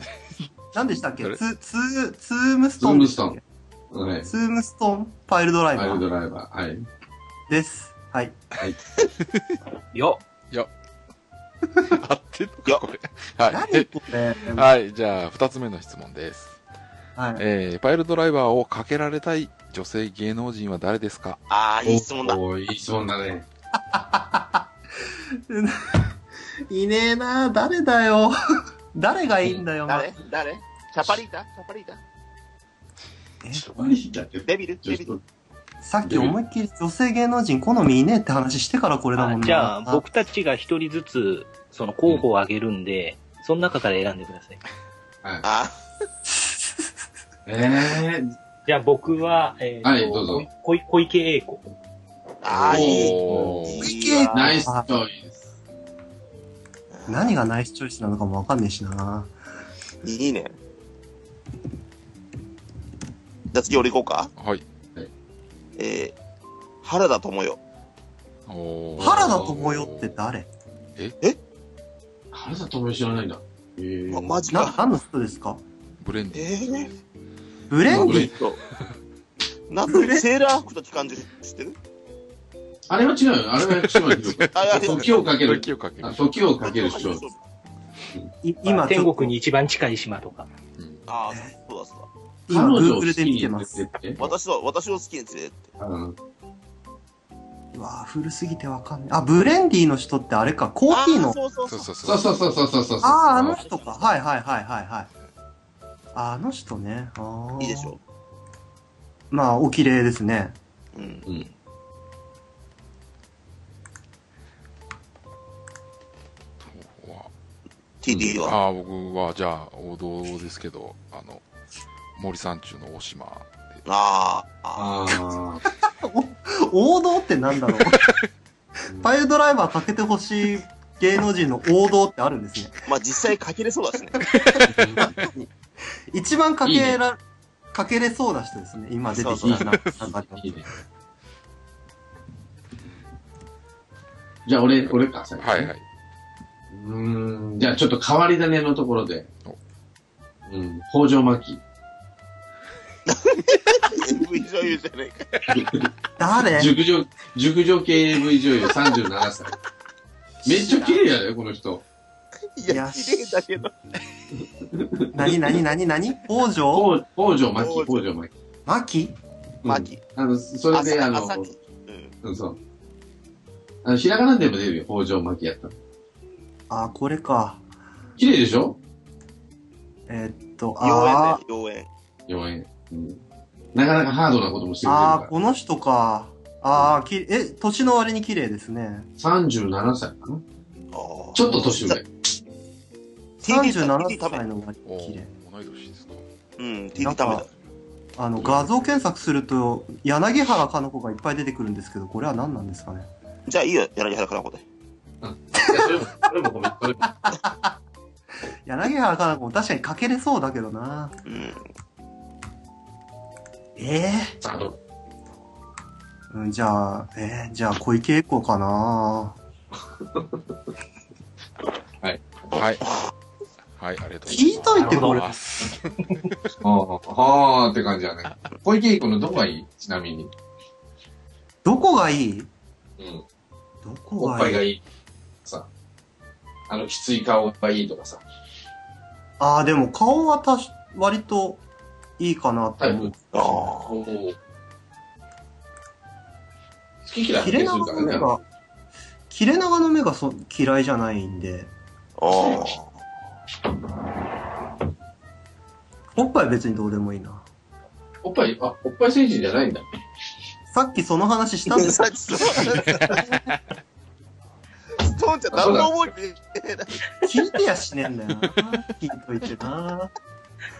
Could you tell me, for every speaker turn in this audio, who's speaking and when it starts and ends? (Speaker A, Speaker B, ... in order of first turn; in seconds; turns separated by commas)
Speaker A: 0.7-3.4, Speaker B: 2.8-3.4, Speaker B: 3.9-4.3, Speaker A: 4.2-6.0, Speaker B: 5.7-6.8, Speaker A: 7.5-8.4, Speaker C: 9.2-9.6, Speaker D: 9.9-10.2, Speaker C: 11.8-13.9, Speaker A: 13.5-14.7, Speaker C: 14.4-16.6, Speaker A: 17.1-17.4, Speaker C: 17.4-21.4, Speaker E: 21.5-22.4, Speaker B: 21.8-23.4, Speaker A: 23.7-24.6, Speaker A: 25.5-26.1, Speaker A: 26.7-28.3, Speaker A: 28.9-30.1, Speaker E: 29.9-32.0, Speaker A: 33.4-34.0, Speaker B: 33.5-35.2, Speaker E: 34.5-35.2, Speaker A: 35.8-40.0, Speaker B: 36.0-36.4, Speaker D: 39.1-44.6, Speaker E: 45.4-45.8, Speaker A: 46.3-46.8, Speaker B: 47.5-48.3, Speaker D: 48.6-51.6, Speaker B: 49.8-50.5, Speaker E: 52.4-54.6, Speaker B: 52.5-53.6, Speaker C: 52.7-53.9, Speaker A: 53.8-54.9, Speaker B: 54.3-55.4, Speaker E: 56.9-57.4, Speaker A: 57.1-59.3, Speaker E: 60.0-60.5, Speaker E: 63.5-64.3, Speaker C: 64.4-64.6, Speaker E: 65.8-66.1, Speaker E: 66.8-67.6, Speaker C: 68.5-70.2, Speaker A: 69.0-70.5, Speaker B: 69.1-69.6, Speaker B: 72.3-74.4, Speaker E: 74.1-74.8, Speaker A: 74.5-75.6, Speaker C: 76.0-76.9, Speaker E: 76.3-76.9, Speaker A: 77.7-78.3, Speaker B: 77.9-78.3, Speaker E: 77.9-78.6, Speaker E: 79.7-81.8, Speaker A: 79.9-80.2, Speaker B: 82.9-87.2, Speaker C: 83.6-86.3, Speaker E: 84.5-85.2, Speaker E: 86.6-87.4, Speaker A: 88.4-89.3, Speaker D: 88.7-90.5, Speaker C: 90.8-91.0, Speaker E: 91.1-92.1, Speaker A: 91.3-91.5, Speaker A: 92.5-93.8, Speaker B: 92.5-94.3, Speaker E: 94.2-95.7, Speaker B: 95.8-96.2, Speaker A: 97.7-101.3, Speaker E: 100.9-101.9, Speaker C: 101.7-102.3, Speaker B: 102.0-103.6, Speaker A: 103.0-105.1, Speaker E: 103.5-104.1, Speaker A: 106.1-108.0, Speaker E: 107.6-108.0, Speaker A: 109.3-110.5, Speaker E: 110.9-111.3, Speaker C: 116.6-117.3, Speaker E: 118.0-118.6, Speaker B: 118.1-118.4, Speaker C: 118.4-121.4, Speaker C: 122.2-123.8, Speaker E: 123.8-125.0, Speaker B: 124.8-125.6, Speaker A: 125.9-128.1, Speaker A: 129.0-132.8, Speaker E: 132.9-134.2, Speaker A: 134.3-135.3, Speaker C: 134.7-135.0, Speaker B: 134.7-135.2, Speaker A: 136.1-137.2, Speaker B: 136.6-137.0, Speaker A: 137.7-140.4, Speaker E: 139.1-139.7, Speaker C: 139.6-140.4, Speaker B: 140.4-140.6, Speaker B: 144.4-145.7, Speaker C: 144.9-145.8, Speaker B: 146.7-149.3, Speaker B: 150.5-151.6, Speaker E: 153.1-155.5, Speaker B: 155.5-155.9, Speaker A: 156.2-156.7, Speaker B: 156.4-159.5, Speaker B: 160.4-161.8, Speaker A: 160.4-161.0, Speaker E: 162.6-163.7, Speaker A: 162.7-163.2, Speaker B: 164.7-165.6, Speaker A: 165.1-166.9, Speaker B: 166.7-168.3, Speaker E: 167.6-168.0, Speaker A: 168.7-169.2, Speaker B: 169.6-171.5, Speaker E: 169.6-170.0, Speaker E: 170.7-172.1, Speaker B: 172.2-172.6, Speaker B: 173.8-175.7, Speaker A: 176.7-177.6, Speaker B: 178.2-178.8, Speaker A: 180.1-181.4, Speaker E: 180.8-181.9, Speaker B: 182.3-183.2, Speaker B: 183.7-185.3, Speaker A: 184.8-189.1, Speaker B: 189.2-190.4, Speaker E: 190.9-192.0, Speaker B: 191.3-192.0, Speaker A: 193.4-195.3, Speaker E: 193.4-194.4, Speaker C: 194.8-196.2, Speaker E: 196.6-197.5, Speaker A: 197.0-197.4, Speaker A: 198.2-203.1, Speaker B: 198.4-198.7, Speaker E: 203.5-204.6, Speaker B: 205.2-207.1, Speaker A: 205.6-206.1, Speaker A: 207.1-207.8, Speaker A: 208.6-211.2, Speaker E: 211.2-211.6, Speaker A: 213.8-214.3, Speaker B: 214.4-214.8, Speaker A: 216.3-219.3, Speaker B: 222.0-222.4, Speaker C: 222.5-222.9, Speaker C: 223.8-226.5, Speaker A: 224.3-225.3, Speaker B: 224.8-225.1, Speaker D: 224.9-225.2, Speaker B: 226.6-230.3, Speaker A: 231.6-232.5, Speaker B: 233.0-233.2, Speaker A: 233.8-234.6, Speaker B: 234.2-234.8, Speaker B: 236.7-238.2, Speaker A: 239.4-241.6, Speaker A: 242.2-243.7, Speaker B: 242.8-244.3, Speaker E: 243.3-244.0, Speaker B: 247.0-248.3, Speaker A: 247.4-248.4, Speaker A: 249.3-251.7, Speaker E: 252.2-252.9, Speaker A: 256.1-257.4, Speaker B: 258.2-259.9, Speaker A: 260.7-263.3, Speaker E: 261.7-263.2, Speaker C: 262.9-263.6, Speaker E: 265.0-266.9, Speaker B: 265.5-265.9, Speaker A: 267.2-270.1